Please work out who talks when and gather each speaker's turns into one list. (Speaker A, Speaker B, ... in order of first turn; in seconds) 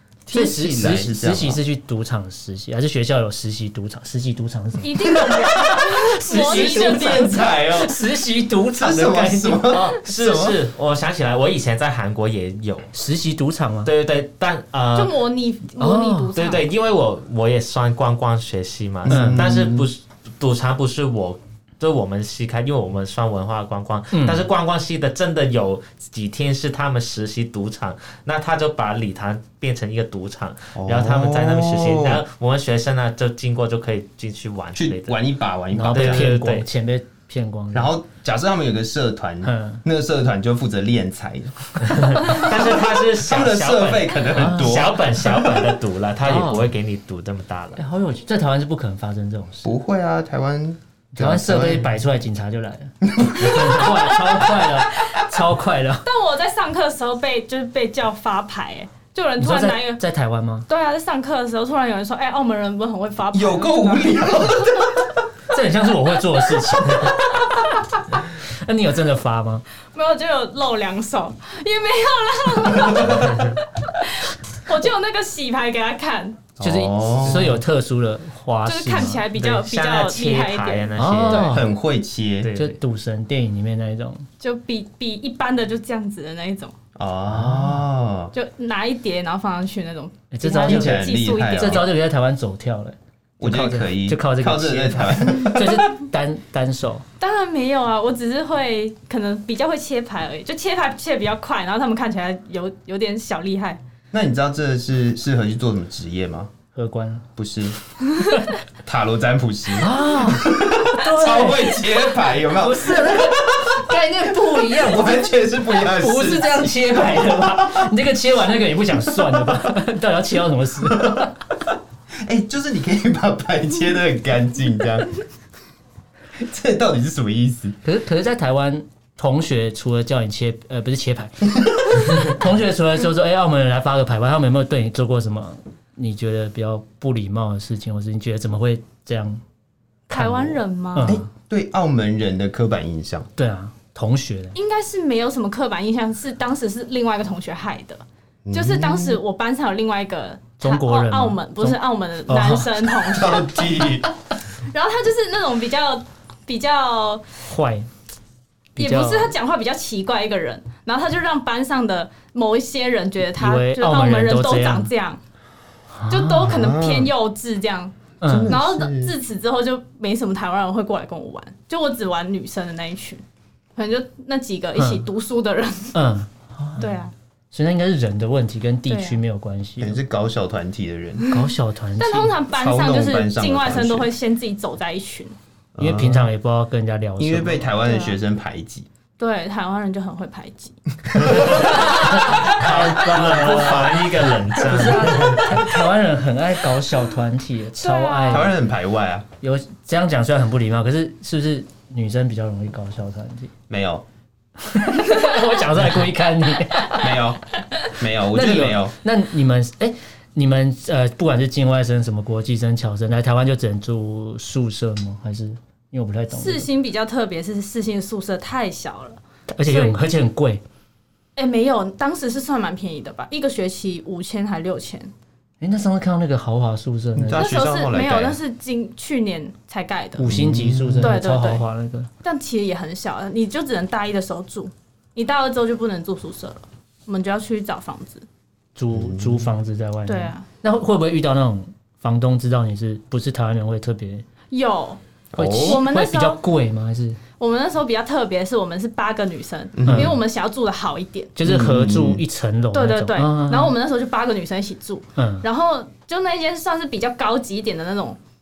Speaker A: 0.3-1.6, 5.1-8.1, 8.8-10.6, 19.1-19.9, 30.7-32.2, 34.7-36.4, 37.7-45.7, 49.6-51.9, 53.1-54.3, 63.3-65.2, 72.9-73.2, 76.6-77.6, 81.5-82.5, 87.0-88.3, 90.5-91.9, 93.4-96.0, 104.1-106.5, 107.4-107.8, 108.8-117.9, 119.1-119.6, 120.8-121.3, 122.2-125.1, 126.3-127.8, 141.0-143.3, 148.4-149.2, 153.0-154.1, 166.5-167.1, 168.2-169.1, 179.8-181.2, 182.5-184.1, 185.7-186.3, 187.2-188.9, 191.1-191.7, 198.3-199.3, 203.7-204.0, 207.0-208.9, 227.2-228.4, 230.2-231.2, 238.9-239.5, 245.3-245.8, 249.8-250.2, 251.4-252.2
Speaker B: 0.3-10.0, 12.9-13.9, 15.8-16.3, 19.1-19.4, 24.1-24.5, 35.7-37.9, 39.4-39.8, 44.4-44.8, 46.2-46.7, 47.8-49.7, 51.1-56.0, 59.4-60.7, 65.5-69.6, 73.1-73.4, 76.6-79.2, 81.0-81.7, 82.6-84.2, 87.3-87.8, 90.3-97.0, 106.7-107.2, 109.8-121.3, 127.8-139.4, 140.1-141.3, 143.4-144.5, 150.6-152.8, 157.5-157.9, 158.8-159.3, 163.3-164.9, 165.9-166.6, 168.2-168.6, 174.8-175.0, 175.9-176.9, 177.5-180.0, 181.3-182.3, 185.8-187.7, 191.5-198.5, 199.4-203.5, 204.6-207.2, 208.3-216.7, 219.5-220.6, 225.6-227.5, 230.2-232.1, 238.8-244.2, 245.3-247.2, 249.9-250.1, 251.3-253.7, 255.2-255.4
Speaker C: 4.8-7.5, 14.9-16.7, 56.0-60.0, 60.7-64.9, 69.9-76.4, 78.6-81.5, 84.4-86.7, 88.3-91.8, 97.2-103.8, 140.1-141.2, 144.5-154.0, 154.6-157.2, 158.8-165.2, 166.1-167.9, 168.5-173.2, 173.8-176.0, 176.8-177.1, 178.9-179.2, 181.2-185.3, 187.8-188.2, 189.2-190.8, 191.3-192.4, 195.1-195.6, 197.8-198.5, 216.3-220.0, 221.3-225.1, 227.3-230.3, 231.0-231.7, 232.2-238.2, 240.0-240.4, 244.5-245.0, 245.6-246.4, 247.4-251.3, 252.7-258.2
Speaker D: 9.9-12.9, 13.8-15.1, 16.3-35.2, 35.9-36.7, 42.2-47.8, 79.3-81.6, 82.4-82.8, 191.6-195.5